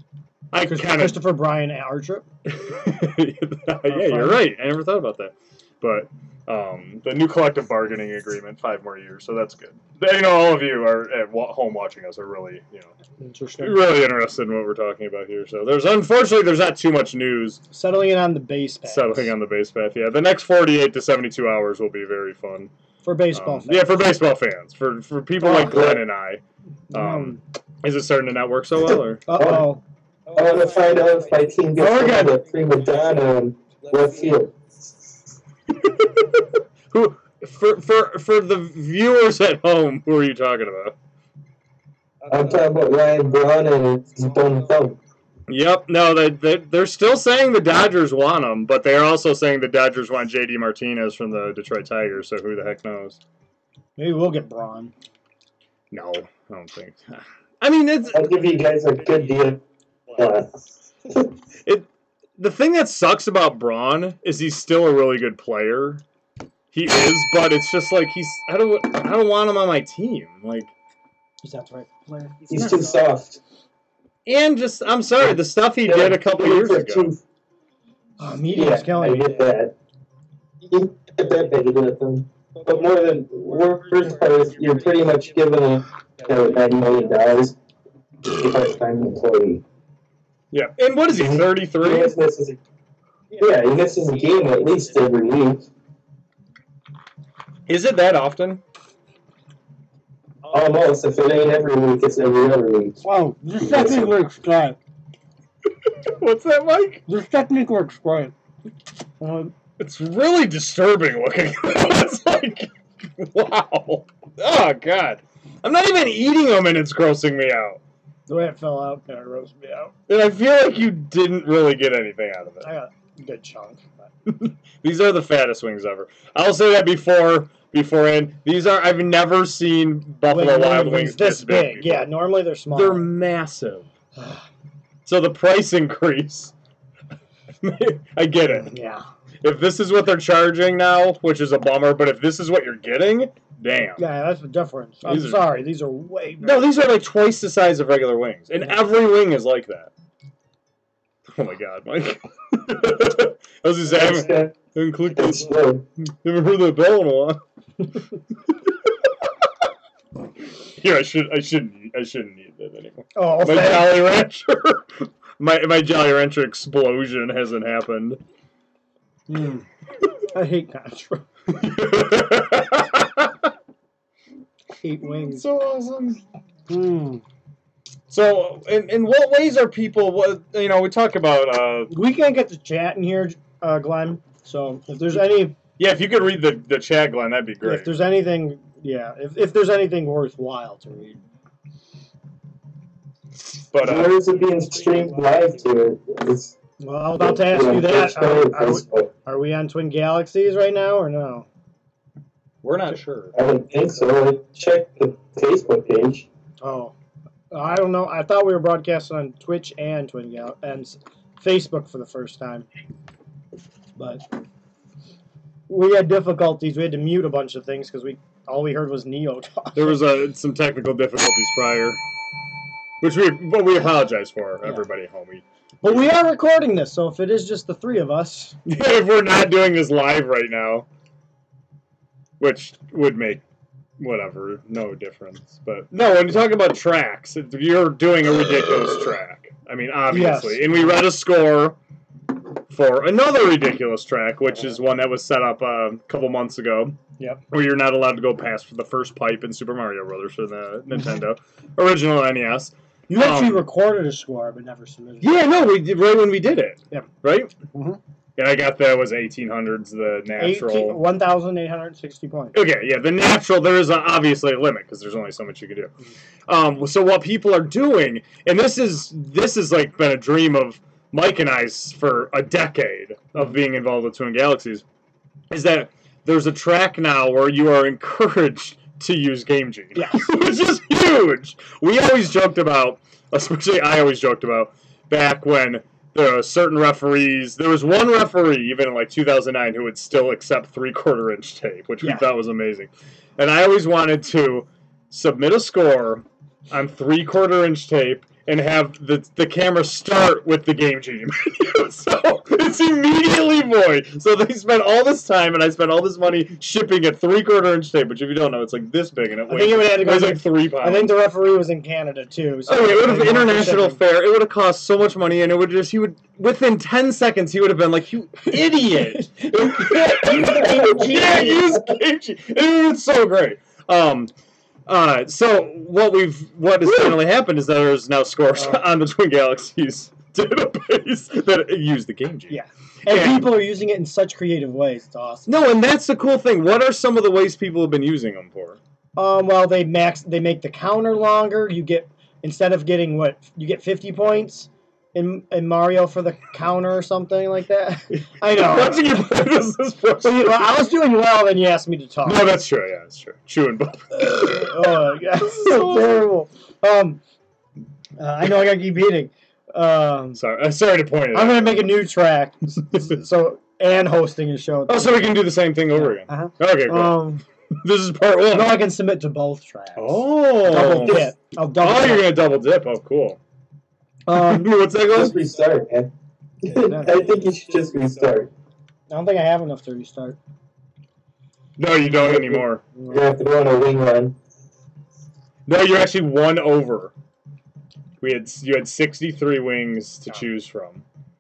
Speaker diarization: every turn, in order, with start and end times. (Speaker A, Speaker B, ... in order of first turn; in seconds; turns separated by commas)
Speaker A: 0.5-1.3, Speaker B: 0.6-2.2, Speaker A: 2.5-12.9, Speaker B: 3.9-4.4, Speaker B: 13.2-13.9, Speaker A: 13.6-17.6, Speaker B: 17.7-19.3, Speaker A: 18.8-22.7, Speaker B: 23.0-24.0, Speaker A: 23.3-29.2, Speaker B: 25.4-25.9, Speaker C: 25.6-26.0, Speaker B: 26.9-27.4, Speaker B: 29.3-29.8, Speaker C: 29.3-29.7, Speaker C: 30.3-34.5, Speaker B: 31.8-32.4, Speaker A: 35.8-40.9, Speaker C: 42.3-45.0, Speaker A: 45.5-53.2, Speaker B: 54.0-54.9, Speaker A: 55.9-58.3, Speaker C: 58.1-59.6, Speaker C: 60.1-61.2, Speaker A: 61.6-66.0, Speaker A: 66.7-70.7, Speaker B: 71.4-72.4, Speaker C: 72.5-73.4, Speaker A: 72.5-72.8, Speaker A: 74.2-77.1, Speaker C: 75.8-77.2, Speaker B: 78.2-79.3, Speaker C: 78.5-79.7, Speaker C: 80.7-87.5, Speaker C: 88.2-89.6, Speaker A: 90.5-92.1, Speaker C: 91.1-92.6, Speaker C: 93.3-95.7, Speaker A: 97.7-98.6, Speaker C: 100.5-103.0, Speaker B: 103.0-104.8, Speaker C: 103.6-104.1, Speaker A: 105.9-107.0, Speaker B: 107.1-108.3, Speaker B: 109.2-109.5, Speaker A: 109.8-117.8, Speaker B: 118.3-119.9, Speaker A: 120.1-122.7, Speaker B: 122.6-123.9, Speaker A: 124.2-132.1, Speaker B: 130.3-133.1, Speaker A: 132.7-133.9, Speaker A: 135.0-136.5, Speaker A: 137.6-138.7, Speaker B: 138.5-139.0, Speaker A: 139.4-144.0, Speaker B: 144.0-146.8, Speaker A: 145.0-145.5, Speaker A: 146.4-149.9, Speaker A: 151.3-157.4, Speaker C: 153.9-154.5, Speaker C: 155.1-155.8, Speaker A: 160.8-168.2, Speaker B: 163.1-164.0, Speaker B: 169.3-169.7, Speaker B: 170.3-171.2, Speaker A: 171.5-173.5, Speaker B: 174.8-175.4, Speaker A: 175.0-176.2, Speaker B: 176.7-177.2, Speaker A: 178.1-181.9, Speaker B: 181.9-185.6, Speaker A: 185.8-187.9, Speaker B: 187.6-191.2, Speaker A: 193.7-194.1, Speaker C: 193.7-196.5, Speaker B: 196.8-201.5, Speaker C: 197.2-199.1, Speaker A: 202.6-203.3, Speaker C: 203.3-206.3, Speaker B: 206.6-206.9, Speaker B: 207.5-212.7, Speaker B: 213.9-214.2, Speaker B: 215.7-220.0, Speaker A: 219.7-222.0, Speaker A: 223.0-226.0, Speaker B: 225.8-228.6, Speaker A: 228.7-230.9, Speaker A: 232.4-233.4, Speaker A: 234.0-241.8, Speaker B: 240.1-240.8, Speaker A: 242.7-247.0, Speaker A: 247.5-253.7, Speaker B: 253.1-255.4, Speaker A: 255.2-257.5, Speaker B: 257.7-258.0, Speaker A: 258.4-261.0, Speaker B: 260.4-262.6, Speaker A: 262.5-265.9, Speaker A: 266.5-274.8, Speaker A: 275.5-311.1, Speaker B: 279.9-280.3, Speaker B: 309.5-314.0, Speaker A: 312.7-324.3, Speaker B: 319.1-321.7, Speaker A: 324.9-333.6, Speaker B: 332.5-335.5, Speaker A: 335.5-338.8, Speaker B: 339.1-349.1, Speaker A: 348.1-350.7, Speaker B: 350.2-352.5, Speaker A: 352.2-356.2, Speaker B: 354.2-357.2, Speaker B: 358.2-360.4, Speaker A: 360.3-362.0, Speaker B: 361.3-367.4, Speaker A: 364.9-368.9, Speaker B: 368.5-372.3, Speaker A: 370.0-373.4, Speaker B: 374.3-374.7, Speaker A: 374.3-375.4, Speaker C: 375.1-376.1, Speaker C: 376.6-378.5, Speaker B: 376.8-377.1, Speaker B: 379.1-380.4, Speaker A: 381.8-382.8, Speaker C: 382.2-384.4, Speaker B: 382.9-383.2, Speaker A: 385.6-387.1, Speaker A: 388.2-391.0